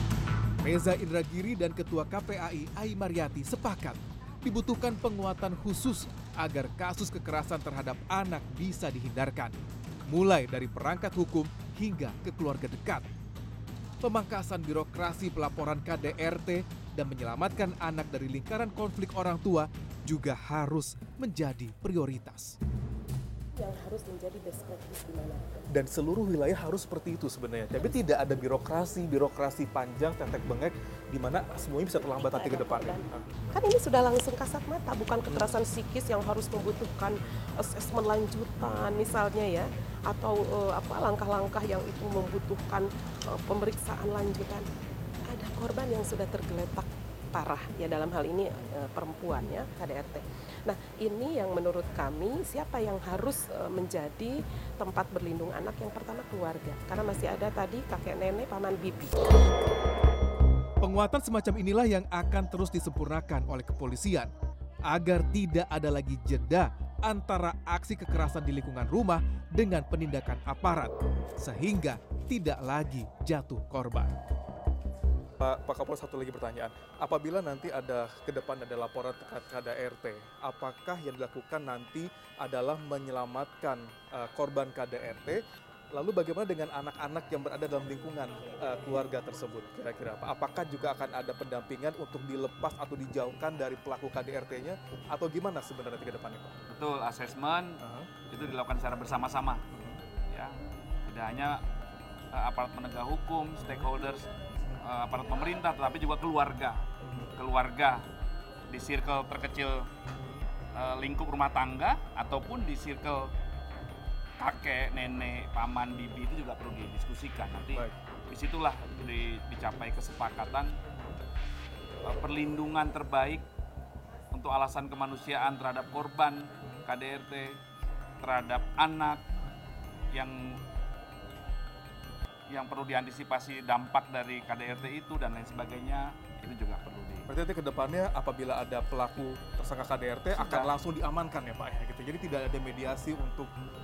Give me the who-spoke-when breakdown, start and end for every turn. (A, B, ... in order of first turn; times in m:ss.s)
0:00.6-0:09.5 A
0:10.1-0:13.0 A
0:14.0-0:22.6 A
0:23.6-0:25.6 B
0:25.7-0:33.5 C
0:32.2-0:44.6 B
0:45.3-0:59.3 B
1:00.8-1:04.3 A
1:04.9-1:14.1 A
1:15.4-1:36.6 C
1:36.7-1:39.6 D
1:37.8-1:38.1 C
1:39.7-1:40.0 C
1:40.3-1:40.5 D
1:41.0-1:41.6 D
1:42.3-1:44.3 D
1:44.8-1:46.8 D
1:47.0-1:47.3 C
1:47.4-1:48.0 D
1:48.7-1:49.9 D
1:50.7-1:53.3 D
1:54.4-2:00.7 D
2:02.0-2:03.4 D
2:04.3-2:07.6 D
2:08.2-2:09.2 D
2:10.1-2:10.6 D
2:12.5-2:17.3 D
2:17.3-2:23.5 C
2:20.3-2:20.7 D